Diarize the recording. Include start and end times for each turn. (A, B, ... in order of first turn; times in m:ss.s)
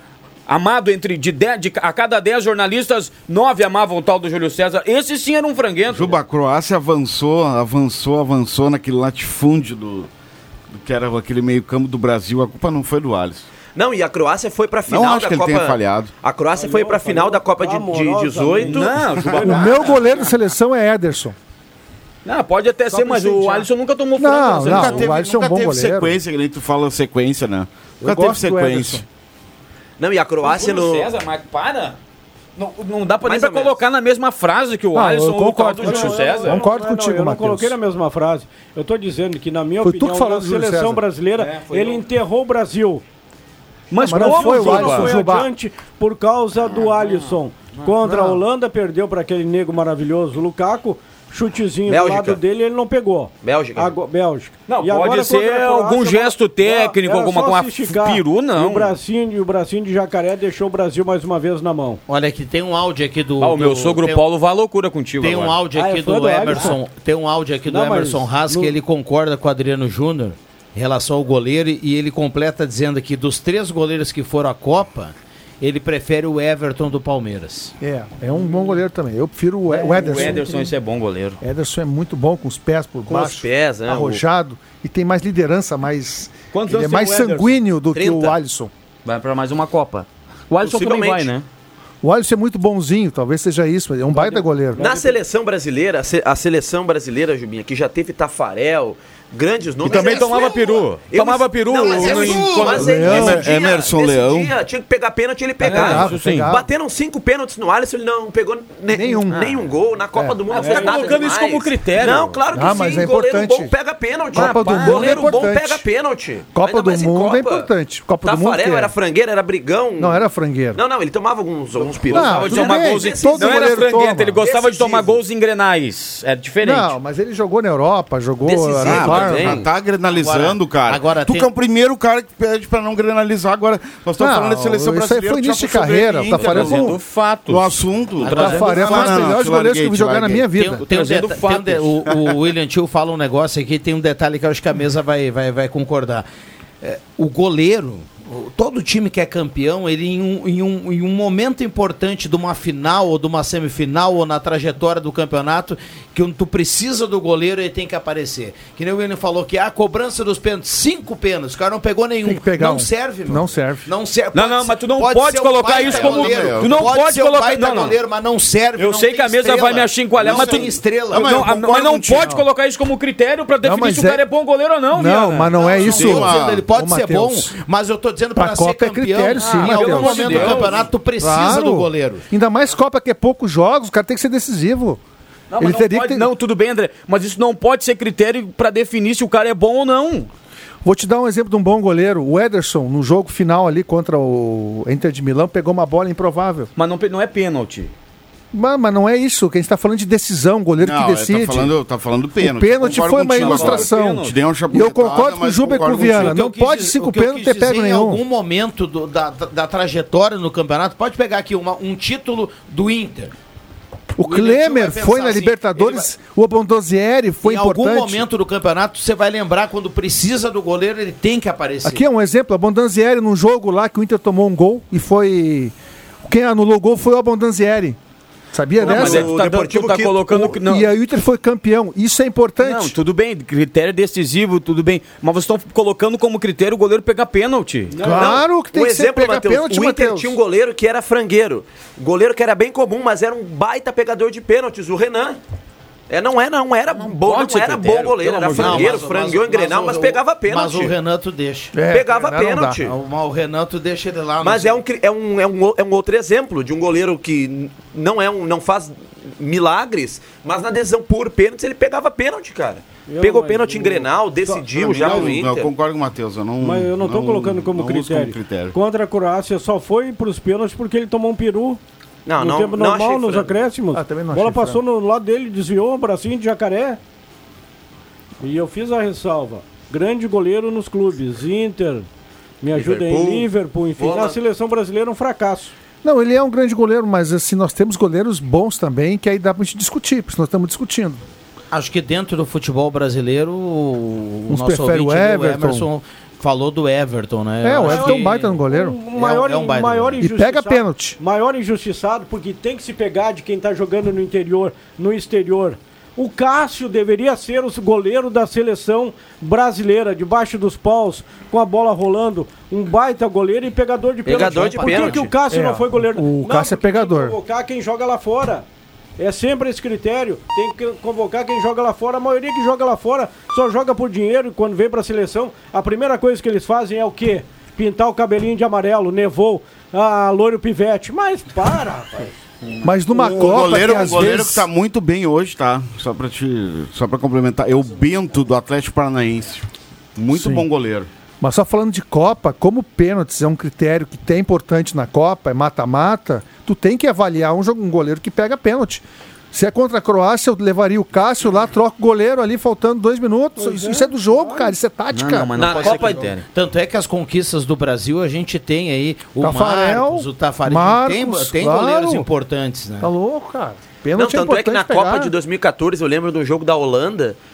0:00.5-0:06.2 A
0:05.9-0:10.1 B
0:10.8-0:13.5 B
0:13.7-0:19.4 C
0:14.9-0:16.1 B
0:16.5-0:20.0 D
0:18.6-0:20.1 A
0:19.4-0:21.4 E
0:22.2-0:25.1 A
0:22.9-0:23.7 D
0:24.2-0:26.2 E
0:24.7-0:25.5 F
0:24.7-0:29.0 B
0:28.0-0:29.0 E
0:30.0-0:31.1 C
0:30.4-0:32.0 A
0:32.6-0:36.6 A
0:33.2-0:33.8 C
0:34.9-0:37.8 E
0:35.8-0:43.0 D
0:39.8-0:41.0 E
0:41.4-0:42.0 A
0:43.9-0:45.1 A
0:44.0-0:45.5 E
0:44.1-1:02.0 D
0:46.6-0:47.9 A
0:48.0-0:48.4 E
0:51.8-0:52.4 C
0:53.4-0:53.9 C
0:54.7-0:59.0 A
1:02.1-1:04.2 F
1:03.4-1:05.6 A
1:05.2-1:17.7 F
1:05.7-1:06.8 D
1:07.7-1:08.7 D
1:17.8-1:20.7 E
1:19.7-1:21.4 A
1:21.4-1:28.7 E
1:23.1-1:24.2 C
1:26.5-1:27.6 A
1:27.9-1:28.3 C
1:29.0-1:31.4 A
1:30.6-1:31.3 C
1:32.0-1:34.8 E
1:34.1-1:35.1 D
1:34.8-1:57.7 C
1:39.8-1:43.2 A
1:39.9-1:40.3 F
1:41.8-1:43.0 F
1:42.8-1:43.4 E
1:42.9-1:44.5 B
1:45.6-1:46.5 A
1:45.7-1:46.7 E
1:48.9-1:49.5 E
1:50.5-1:51.3 D
1:50.6-1:52.4 A
1:52.5-1:53.7 E
1:54.3-1:55.8 E
1:54.3-1:55.4 A
1:56.5-1:58.9 E
1:58.2-2:03.8 C
2:00.0-2:00.8 E
2:02.1-2:04.4 E
2:02.1-2:07.0 A
2:04.4-2:05.2 C
2:06.6-2:09.6 E
2:08.4-2:09.6 C
2:08.8-2:20.4 B
2:10.1-2:11.5 F
2:14.2-2:17.0 E
2:16.3-2:19.0 A
2:18.2-2:19.4 F
2:18.3-2:20.8 E
2:20.5-2:26.2 F
2:20.9-2:22.0 A
2:26.8-2:51.4 F
2:42.2-2:43.9 E
2:44.3-2:48.0 A
2:45.7-2:46.9 B
2:48.8-2:55.7 A
2:50.2-2:52.4 B
2:53.6-2:54.2 E
2:54.9-2:57.5 E
2:55.5-3:02.2 F
2:55.7-2:56.7 B
2:58.4-3:05.0 E
2:59.4-3:00.8 A
3:05.5-3:10.3 A
3:05.6-3:06.3 E
3:10.8-3:16.7 E
3:16.8-3:17.9 A
3:18.5-3:21.7 E
3:20.8-3:26.4 B
3:22.4-3:28.2 E
3:23.3-3:24.4 A
3:25.9-3:33.3 F
3:34.1-3:38.2 E
3:34.2-3:36.1 F
3:37.4-3:42.0 F
3:41.8-3:48.0 E
3:48.5-3:49.3 E
3:48.8-3:50.5 C
3:48.8-3:50.9 A
3:50.3-3:53.0 E
3:52.6-3:58.0 A
3:57.9-3:58.4 D
3:58.0-4:00.4 E
3:58.1-4:05.4 C
4:06.1-4:10.9 C
4:06.9-4:09.0 A
4:08.6-4:11.7 F
4:11.7-4:12.8 E
4:11.9-4:12.9 C
4:12.8-4:14.8 F
4:14.4-4:25.7 C
4:23.1-4:25.3 D
4:24.7-4:28.8 B
4:26.6-4:31.8 D
4:32.2-4:33.7 C
4:32.4-4:37.0 D
4:33.9-4:34.8 E
4:38.4-4:42.1 D
4:42.6-4:45.7 D
4:42.7-4:44.4 C
4:46.0-4:51.2 E
4:51.7-4:58.4 F
4:54.5-4:55.9 E
4:57.6-4:59.0 E
4:57.8-5:18.6 D
4:59.1-5:00.2 F
5:00.2-5:01.2 E
5:14.2-5:15.3 C
5:15.5-5:17.4 E
5:19.2-5:32.4 D
5:32.8-5:34.7 E
5:33.0-5:34.3 D
5:33.3-5:41.1 B
5:40.3-5:40.7 E
5:41.4-5:55.8 E
5:53.6-5:54.7 D
5:55.1-5:56.4 A
5:55.6-5:56.3 C
5:55.7-6:03.1 F
5:59.4-6:02.3 E
6:03.0-6:05.3 E
6:04.2-6:07.4 C